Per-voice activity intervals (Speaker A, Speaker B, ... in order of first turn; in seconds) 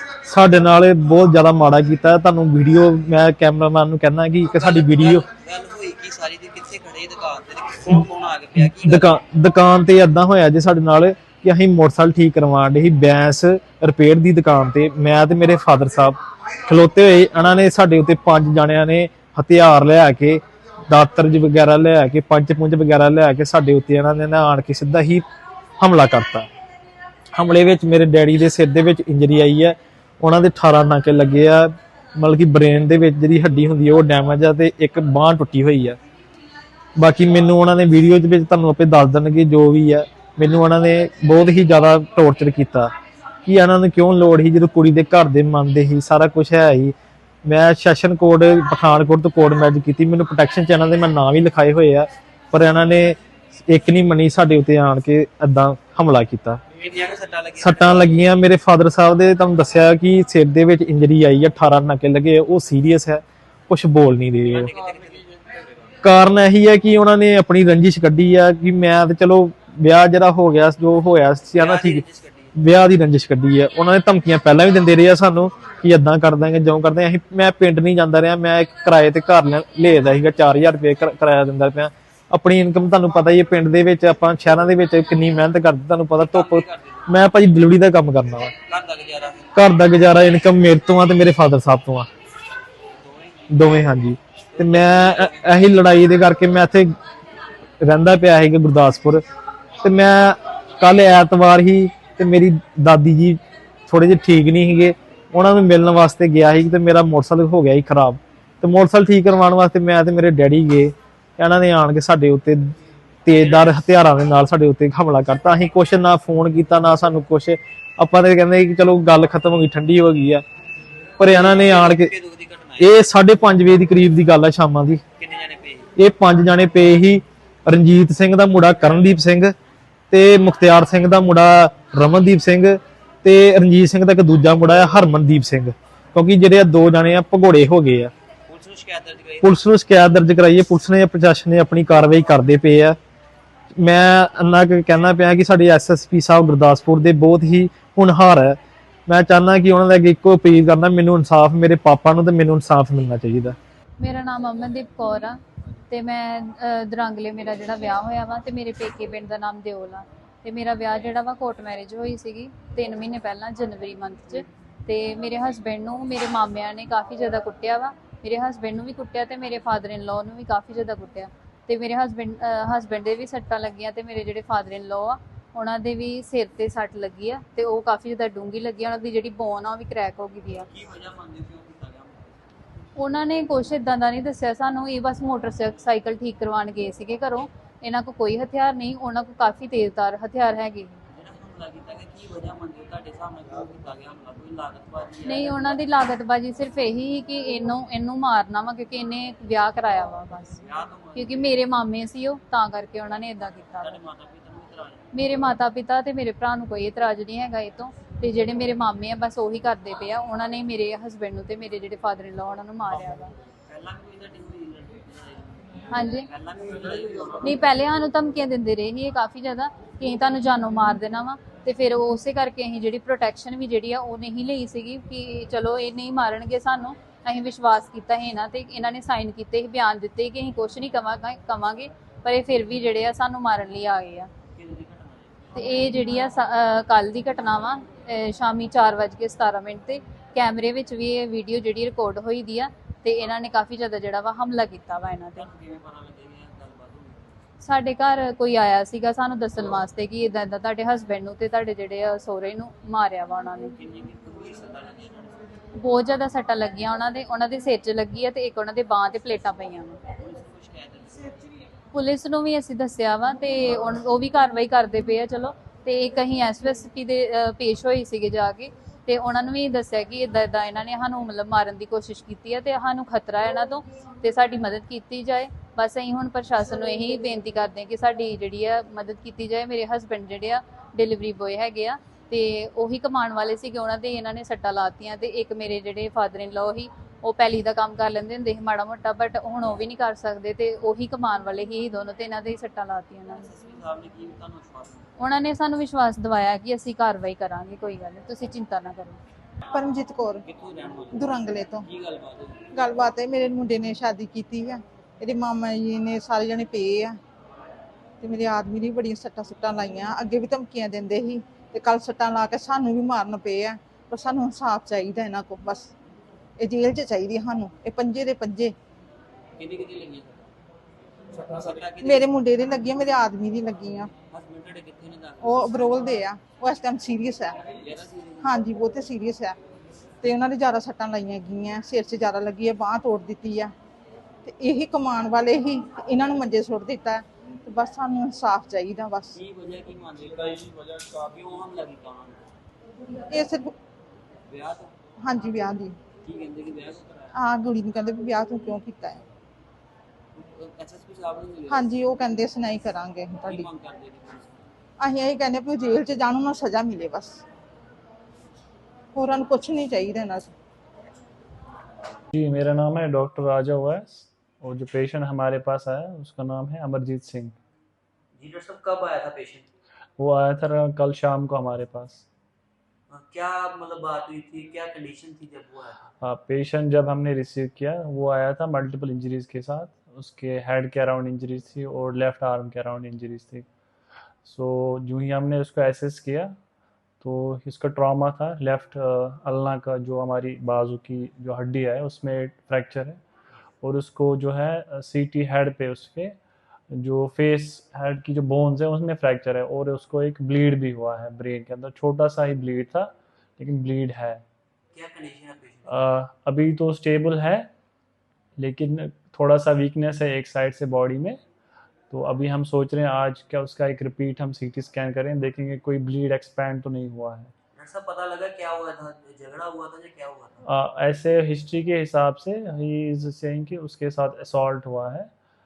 Speaker A: 0.2-5.2, 8.7-25.2, 25.8-26.5, 27.3-36.0, 37.0-42.9, 43.4-56.6, 57.6-64.7, 66.0-72.0, 72.5-88.5, 89.5-92.1, 93.5-96.9, 97.8-99.2, 99.8-112.7, 113.2-120.4, 121.2-122.1, 122.8-125.0, 126.0-129.5, 130.1-138.1, 139.4-143.0, 143.8-153.6
Speaker B: 4.5-9.2, 56.8-58.2, 64.4-65.6, 71.5-72.5, 86.3-87.1, 88.7-89.6, 92.9-93.8, 94.5-95.8, 121.4-123.0, 125.2-125.9, 138.5-139.6, 180.7-182.4, 191.1-195.8, 200.6-201.6, 203.8-205.1, 213.7-217.6, 234.5-235.6, 245.3-247.2, 253.7-255.5, 260.1-261.5, 293.4-295.1, 300.4-302.6, 319.6-320.5, 321.3-322.3, 324.3-326.2, 327.6-328.7, 339.3-342.4, 344.5-344.9, 346.2-347.3, 350.4-351.9, 353.4-354.6, 368.4-369.7, 373.1-376.1, 404.9-406.0, 417.8-420.6
Speaker C: 154.0-155.4, 155.9-180.7, 182.9-190.9, 195.2-200.6, 201.1-204.0, 205.1-213.3, 215.9-216.2, 217.4-234.3, 235.5-245.5, 247.6-253.7, 255.8-260.0, 261.9-293.5, 295.2-299.2
Speaker D: 299.7-300.4, 301.1-301.9, 302.7-307.2, 308.2-315.9, 316.6-318.7, 322.0-324.1, 325.4-327.6, 328.4-329.6, 330.2-333.7, 334.4-339.4, 343.3-343.7, 345.2-345.9, 347.3-349.2, 351.7-353.7, 355.0-357.4, 359.1-360.5
Speaker E: 362.3-367.5, 370.2-372.2, 376.2-383.6, 384.4-386.5, 387.2-393.2, 393.8-396.4, 396.9-404.4, 405.9-407.7, 408.6-411.4, 412.1-417.5, 420.6-425.3